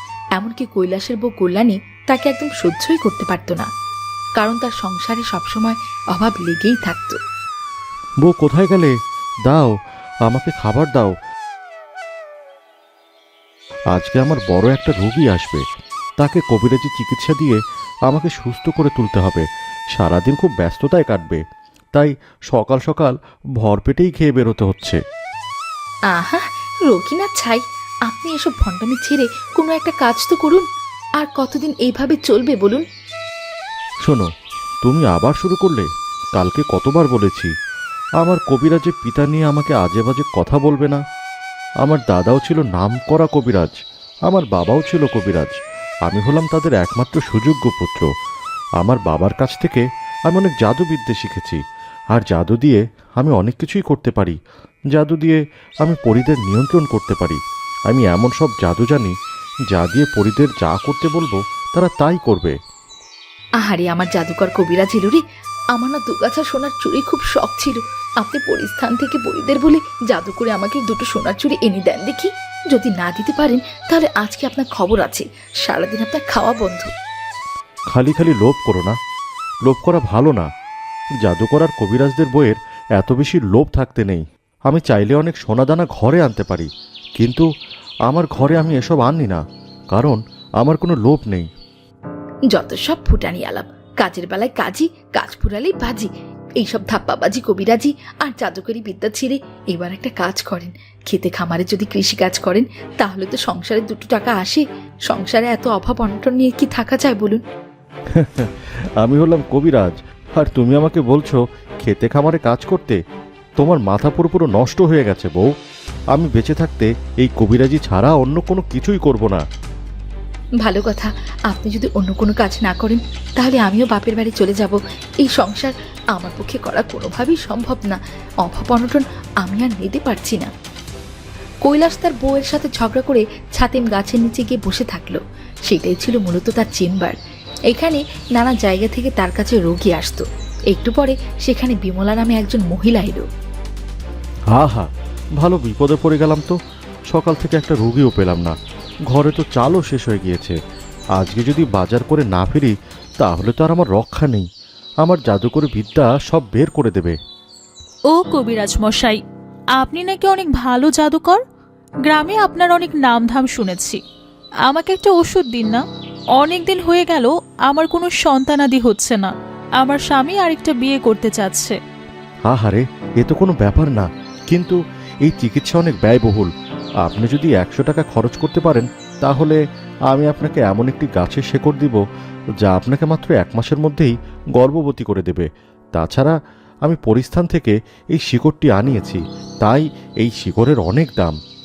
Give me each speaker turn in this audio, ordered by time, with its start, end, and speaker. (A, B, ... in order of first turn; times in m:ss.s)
0:00.4-0:03.7 A
0:04.4-0:07.2 A
0:08.2-0:08.9 B
0:09.5-0:09.7 B
0:10.3-0:11.1 B
0:13.9-0:15.6 B
0:16.2-0:19.4 B
0:20.0-0:21.4 B
0:22.0-0:25.0 B
0:26.1-0:30.6 A
0:31.2-0:32.8 A
0:34.8-0:37.5 B
0:38.2-0:41.0 B
0:41.8-0:43.8 B
0:44.3-0:45.5 B
0:46.1-0:48.1 B
0:48.8-0:51.6 B
0:52.1-0:54.4 B
0:54.9-0:59.1 B
0:59.7-1:02.5 B
1:03.6-1:05.2 A
1:05.8-1:16.9 A
1:17.9-1:19.0 B
1:19.7-1:20.5 B
1:21.2-1:26.7 B
1:27.2-1:27.5 B
1:28.1-1:31.5 B
1:32.5-1:36.1 A
1:36.6-1:47.4 A
1:48.1-1:53.0 B
1:53.6-1:55.5 B
1:56.1-1:59.4 B
2:00.6-2:10.5 A
2:11.6-2:17.2 A
2:17.7-2:23.3 A
2:24.5-2:24.9 B
2:25.4-2:26.6 B
2:27.1-2:28.6 B
2:29.1-2:30.6 B
2:31.2-2:34.5 B
2:35.0-2:37.2 B
2:38.1-2:39.2 C
2:39.8-2:41.4 C
2:42.1-2:44.0 C
2:44.7-2:45.8 C
2:46.4-2:51.8 C
2:52.5-2:56.5 B
2:57.0-2:59.6 B
3:00.1-3:02.0 B
3:02.6-3:06.3 B
3:06.8-3:11.4 B